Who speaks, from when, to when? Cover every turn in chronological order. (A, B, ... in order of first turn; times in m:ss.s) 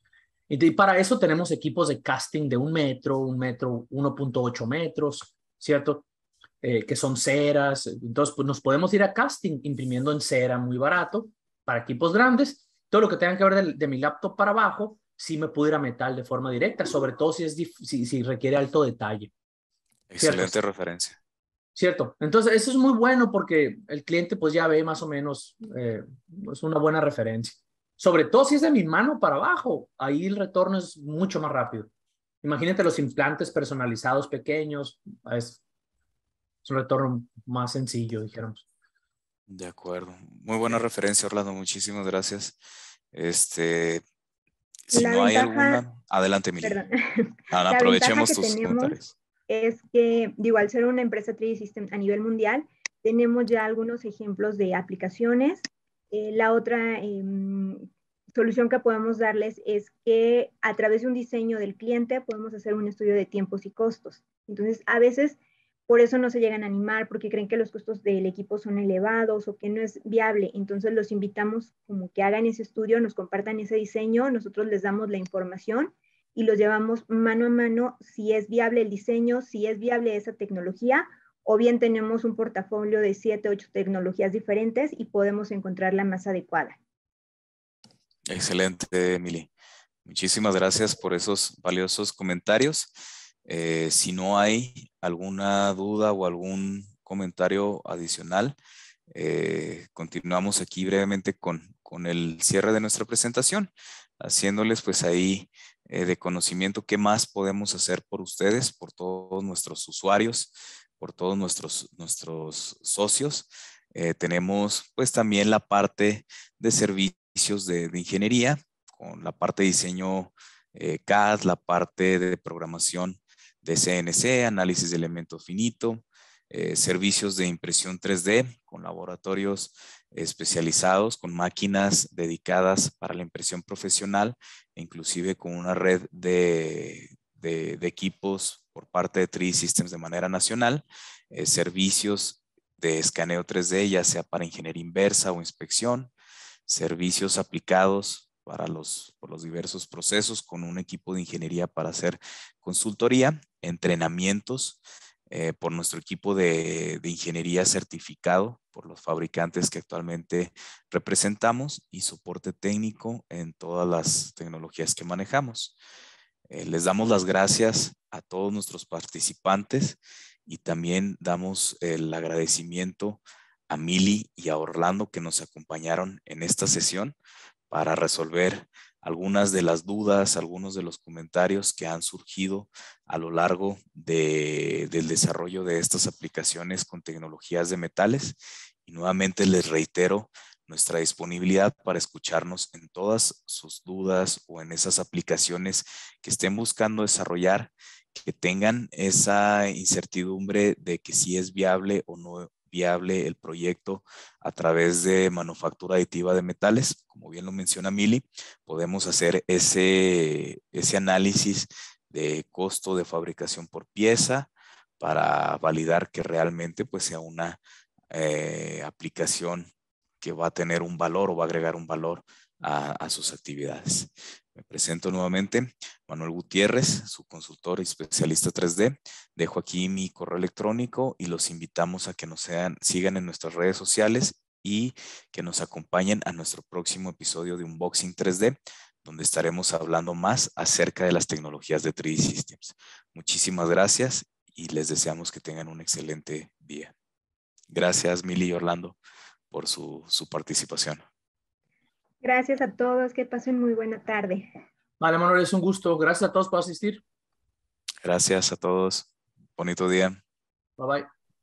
0:00.5-0:06.0 A
0:06.6-0:19.3 A
0:20.1-0:21.2 B
0:20.2-0:20.5 A
0:21.7-0:31.9 A
0:32.4-0:35.6 A
0:36.6-0:38.6 A
0:39.5-0:42.6 B
0:43.1-0:44.0 B
0:44.9-0:46.8 B
0:44.9-0:45.8 C
0:46.6-1:26.8 C
0:47.5-0:49.1 B
1:28.3-1:29.5 B
1:30.0-1:32.9 B
1:33.4-1:38.6 B
1:39.1-2:26.1 B
2:26.6-2:45.7 B
2:46.5-2:57.2 B
2:57.7-3:37.6 B
3:38.1-3:39.7 B
3:40.2-4:06.9 B
4:07.7-4:09.0 B
4:09.5-4:11.0 B
4:12.2-4:14.5 C
4:15.0-4:17.0 A
4:18.0-4:20.2 B
4:20.8-4:21.1 A